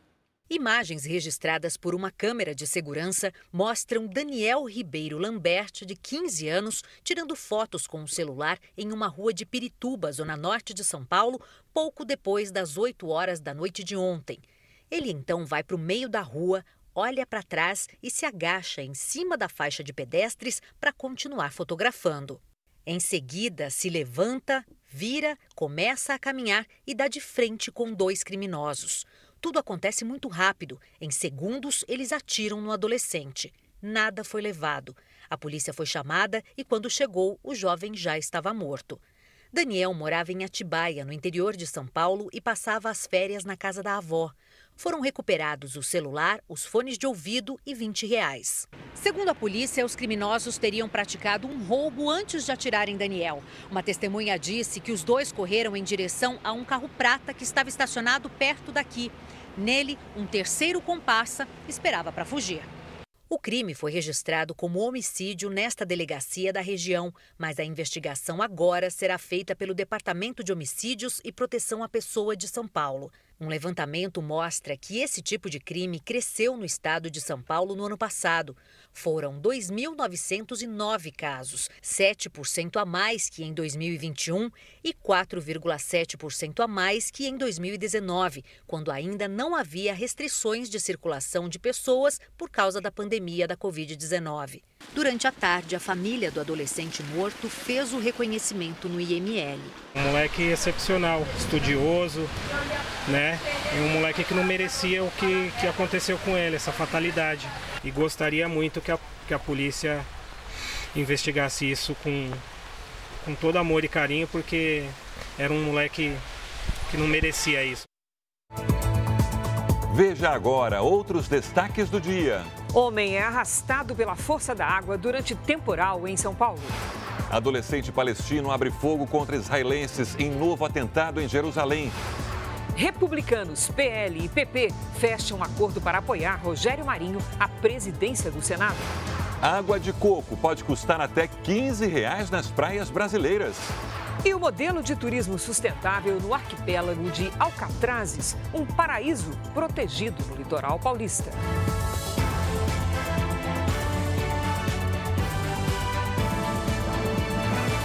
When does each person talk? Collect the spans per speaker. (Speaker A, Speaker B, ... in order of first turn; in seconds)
Speaker A: 0.5-39.0, 39.5-62.7, 63.3-99.8
Speaker B: 100.0-102.3, 103.1-110.1, 110.9-112.4, 113.2-116.2, 116.9-117.8
Speaker C: 119.9-122.5, 127.3-131.9, 139.4-143.7
Speaker D: 122.7-126.8, 132.7-138.9, 144.2-151.4